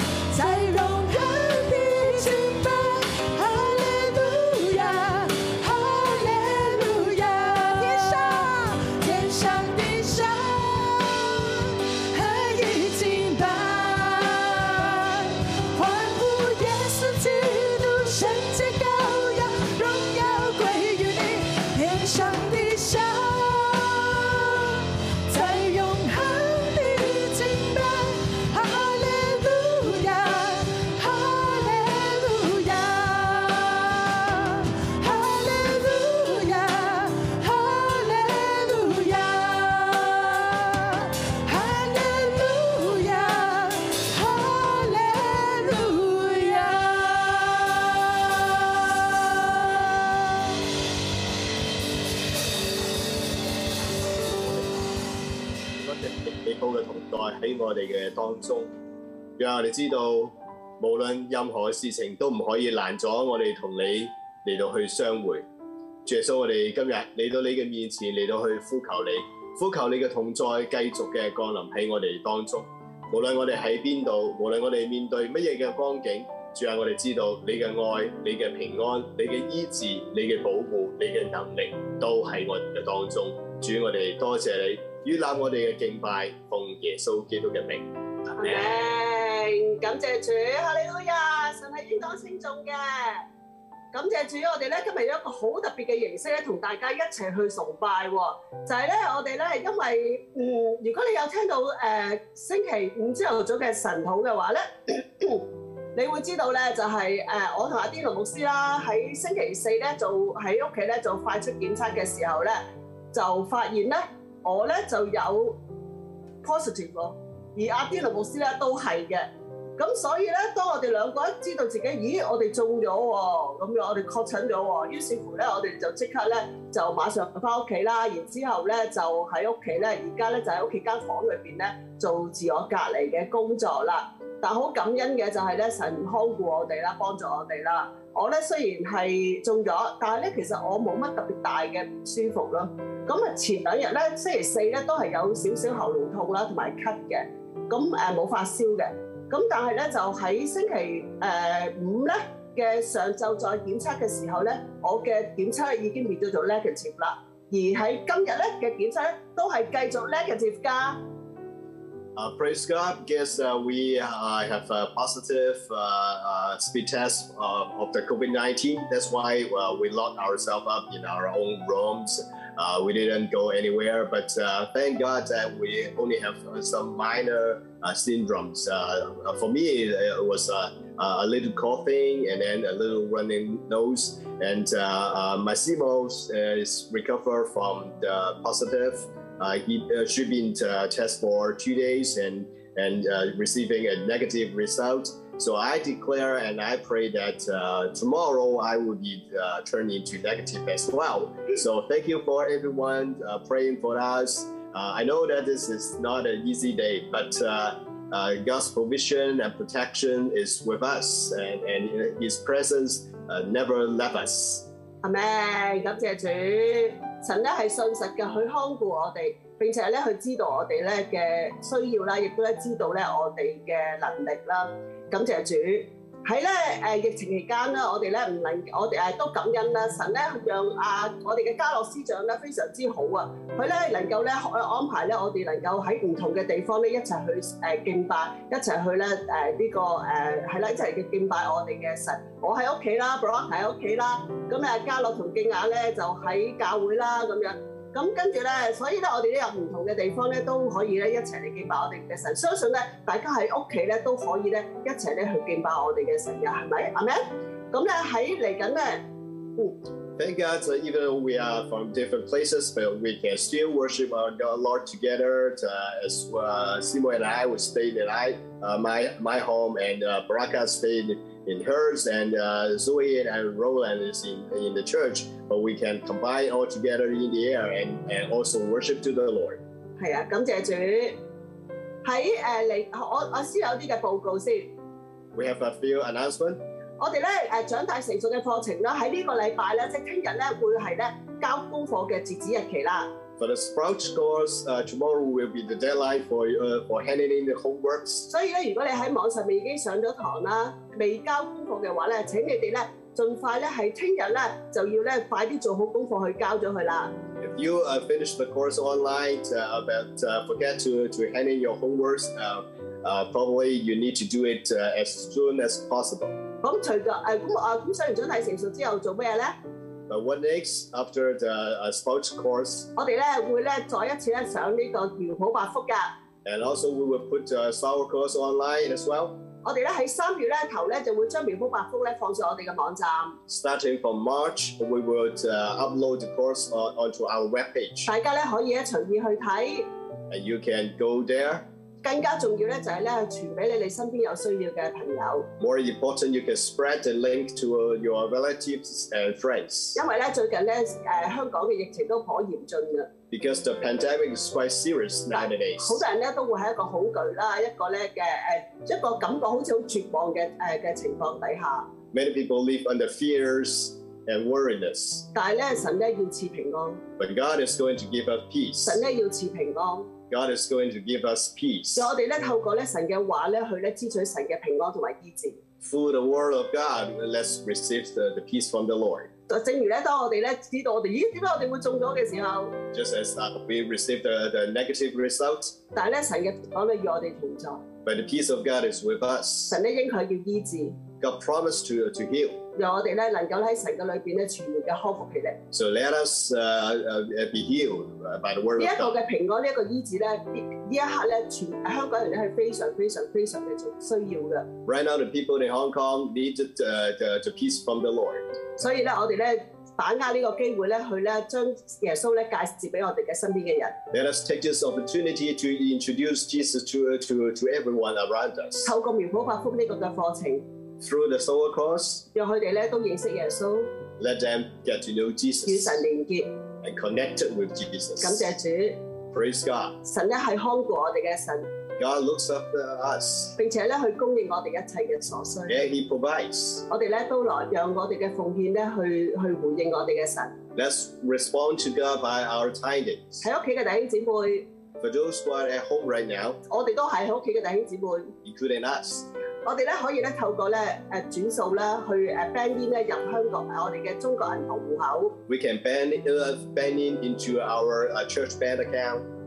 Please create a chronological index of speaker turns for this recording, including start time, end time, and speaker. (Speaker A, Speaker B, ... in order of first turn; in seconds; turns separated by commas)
Speaker A: 0.3-48.0, Speaker B: 55.7-58.7, Speaker B: 59.4-65.5, Speaker B: 66.0-88.6, Speaker C: 88.4-93.2, Speaker C: 93.9-115.6, Speaker C: 116.4-161.0, Speaker B: 162.2-214.6, Speaker C: 215.0-259.0, Speaker B: 260.2-279.6, Speaker C: 280.0-281.2, Speaker C: 282.0-284.7, Speaker B: 285.3-286.6, Speaker C: 287.0-293.1, Speaker B: 293.4-298.3, Speaker C: 298.3-307.1, Speaker B: 307.4-316.4, Speaker C: 316.6-319.6, Speaker B: 320.1-322.9, Speaker C: 323.0-326.1, Speaker B: 326.4-329.4, Speaker C: 329.6-333.4, Speaker B: 333.5-338.1, Speaker C: 338.1-339.9, Speaker B: 340.3-341.7, Speaker C: 342.0-345.5, Speaker B: 345.6-350.0, Speaker C: 349.9-353.1, Speaker B: 353.3-356.0, Speaker C: 355.3-361.9, Speaker B: 362.1-365.2, Speaker C: 365.3-367.0, Speaker B: 367.2-369.0, Speaker C: 368.8-370.1, Speaker B: 370.3-372.1, Speaker C: 371.9-375.6, Speaker B: 375.8-379.3, Speaker C: 379.5-382.8, Speaker B: 382.9-385.8, Speaker C: 385.9-387.8, Speaker B: 388.0-389.8, Speaker C: 389.7-391.0, Speaker B: 391.2-392.6, Speaker C: 392.8-395.6, Speaker B: 395.7-399.1, Speaker C: 398.8-404.7, Speaker B: 404.9-408.5, Speaker C: 408.8-413.9, Speaker B: 414.1-418.9, Speaker C: 418.8-420.6, Speaker B: 421.0-422.2, Speaker C: 422.3-423.9, Speaker B: 424.2-426.0, Speaker C: 425.7-426.5, Speaker B: 426.8-428.5, Speaker C: 428.2-429.0, Speaker B: 429.3-430.0, Speaker C: 430.0-431.7, Speaker B: 432.0-433.5, Speaker C: 433.6-435.8, Speaker B: 435.7-436.8, Speaker C: 436.9-440.6, Speaker B: 440.7-443.4, Speaker C: 443.4-444.7, Speaker B: 445.0-446.6, Speaker C: 446.7-448.3, Speaker B: 448.4-449.3, Speaker C: 449.6-455.4, Speaker B: 455.5-459.2